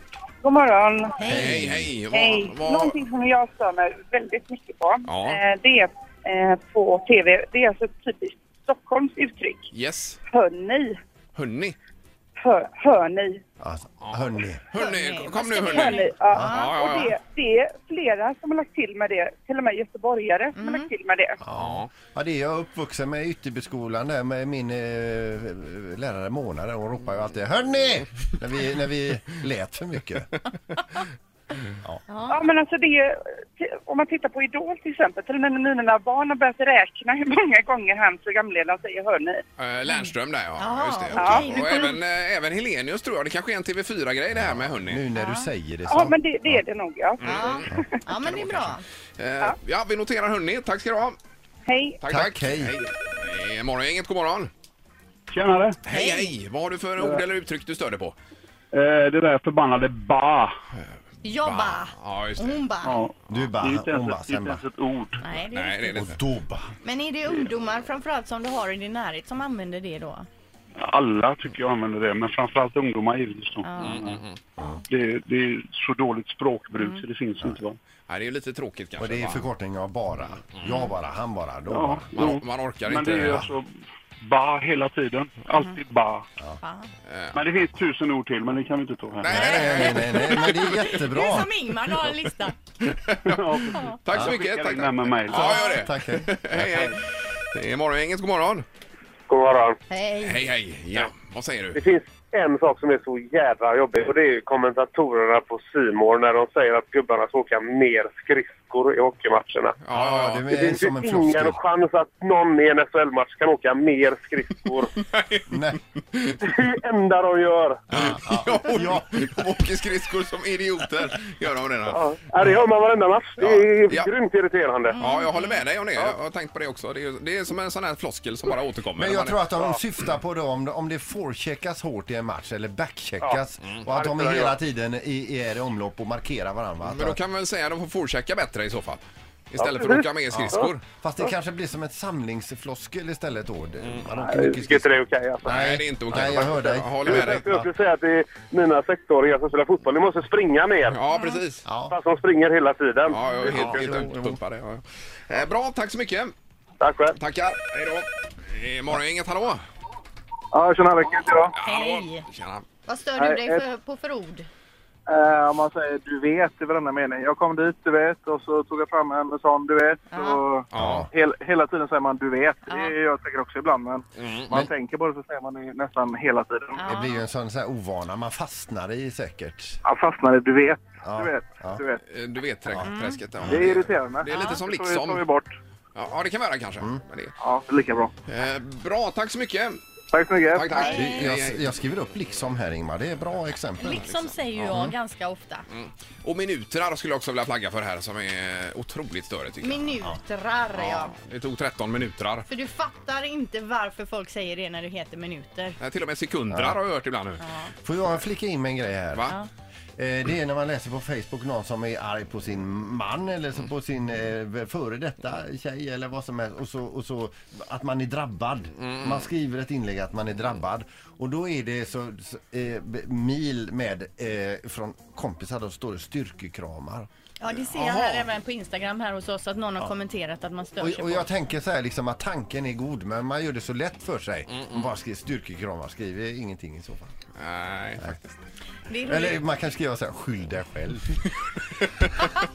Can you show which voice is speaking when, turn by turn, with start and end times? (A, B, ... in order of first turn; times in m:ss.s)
0:00.4-0:01.2 A
0:01.2-0:01.6 B
0:01.2-0:01.9 C
0:01.3-0:03.0 D
0:02.1-0:09.7 A
0:05.0-0:05.4 D
0:09.7-0:10.2 D
0:10.3-0:11.0 A
0:11.3-0:11.8 D
0:12.4-0:13.4 A
0:13.6-0:14.6 C
0:14.7-0:17.1 D
0:14.7-0:16.7 B
0:15.6-0:21.4 A
0:16.3-0:16.6 C
0:20.5-0:20.9 B
0:21.4-0:30.3 C
0:21.5-0:21.9 D
0:32.1-0:32.4 B
0:32.3-0:39.4 A
0:39.6-0:45.0 D
0:39.9-0:42.0 B
0:41.2-0:41.6 A
0:44.3-0:46.6 C
0:45.1-0:45.5 B
0:45.9-0:47.8 A
0:47.2-0:47.6 D
0:47.2-0:48.8 B
0:47.7-0:48.5 C
0:49.2-0:51.2 D
0:51.7-0:52.0 A
0:52.0-0:54.5 D
0:52.1-0:52.7 C
0:55.3-0:55.8 E
0:55.8-0:58.1 D
0:55.9-0:56.3 B
0:58.7-1:00.5 E
1:01.2-1:03.1 B
1:01.4-1:02.6 D
1:02.8-1:05.2 E
1:03.3-1:04.6 C
1:05.2-1:06.1 B
1:05.5-1:06.2 D
1:05.9-1:06.7 C
1:06.8-1:10.3 B
1:10.8-1:14.2 E
1:13.6-1:14.0 B
1:13.8-1:14.4 D
1:14.9-1:17.8 E
1:16.7-1:17.1 B
1:18.1-1:19.5 D
1:19.0-1:22.3 C
1:20.7-1:20.9 B
1:21.7-1:23.7 E
1:22.1-1:23.5 D
1:23.2-1:23.5 C
1:24.2-1:26.2 E
1:26.6-1:26.9 B
1:27.1-1:27.4 D
1:27.3-1:29.3 E
1:29.2-1:30.4 D
1:29.3-1:31.5 C
1:29.8-1:32.6 B
1:32.8-1:33.3 D
1:33.2-1:35.5 E
1:33.7-1:34.0 B
1:33.8-1:37.0 D
1:34.1-1:34.4 C
1:35.3-1:36.3 C
1:35.5-1:35.9 B
1:37.5-1:38.6 D
1:39.3-1:39.8 F
1:39.9-1:40.4 B
1:40.2-1:41.8 D
1:41.7-1:49.8 F
1:49.8-1:50.4 D
1:49.9-1:51.6 C
1:50.5-1:54.9 F
1:55.0-1:55.5 D
1:55.5-1:55.8 C
1:56.1-1:56.4 D
1:56.6-1:57.8 F
1:57.9-1:59.4 C
1:57.9-2:02.5 D
2:01.9-2:05.0 F
2:03.4-2:04.1 D
2:04.9-2:05.6 B
2:05.0-2:09.4 D
2:09.0-2:17.2 C
2:13.2-2:14.6 G
2:16.8-2:20.8 D
2:19.6-2:20.2 G
2:20.3-2:24.8 C
2:24.1-2:24.8 G
2:24.4-2:25.6 F
2:25.4-2:27.6 D
2:25.4-2:27.6 C
2:26.3-2:31.0 F
2:30.9-2:31.6 D
2:31.1-2:31.4 B
2:31.6-2:31.9 C
2:31.9-2:34.0 F
2:33.1-2:36.3 D
2:33.2-2:33.5 B
2:33.4-2:34.4 C
2:36.8-2:37.2 F
2:37.1-2:39.6 D
2:40.5-2:41.5 G
2:41.6-2:42.6 D
2:41.6-2:42.2 B
2:42.8-2:44.5 B
2:43.2-2:43.6 G
2:45.1-2:56.8 G
2:50.1-2:50.4 B
2:50.7-2:51.1 D
2:50.8-2:51.1 C
2:54.2-2:54.5 D
2:56.8-2:57.2 B
2:56.8-2:59.8 C
2:59.8-3:02.0 G
3:01.0-3:01.8 C
3:02.1-3:05.2 D
3:02.7-3:03.6 C
3:02.8-3:03.2 B
3:03.4-3:05.5 G
3:05.9-3:07.3 D
3:07.4-3:08.1 G
3:08.3-3:09.8 D
3:10.1-3:10.8 G
3:10.5-3:11.7 D
3:10.8-3:11.3 B
3:10.9-3:14.1 C
3:13.8-3:15.6 B
3:13.9-3:14.3 D
3:14.7-3:14.9 C
3:15.7-3:19.9 D
3:19.6-3:21.2 B
3:20.7-3:22.4 D
3:22.5-3:25.8 B
3:25.8-3:27.4 D
3:26.5-3:26.8 C
3:27.4-3:27.7 B
3:27.8-3:29.3 C
3:30.0-3:47.1 C
3:38.8-3:39.2 D
3:47.4-3:51.2 B
3:47.6-3:48.3 D
3:50.8-3:57.1 C
3:54.5-3:54.8 D
3:57.4-3:58.1 D
3:58.0-3:58.4 C
3:58.9-3:59.4 B
3:59.0-4:01.2 C
4:02.0-4:02.3 D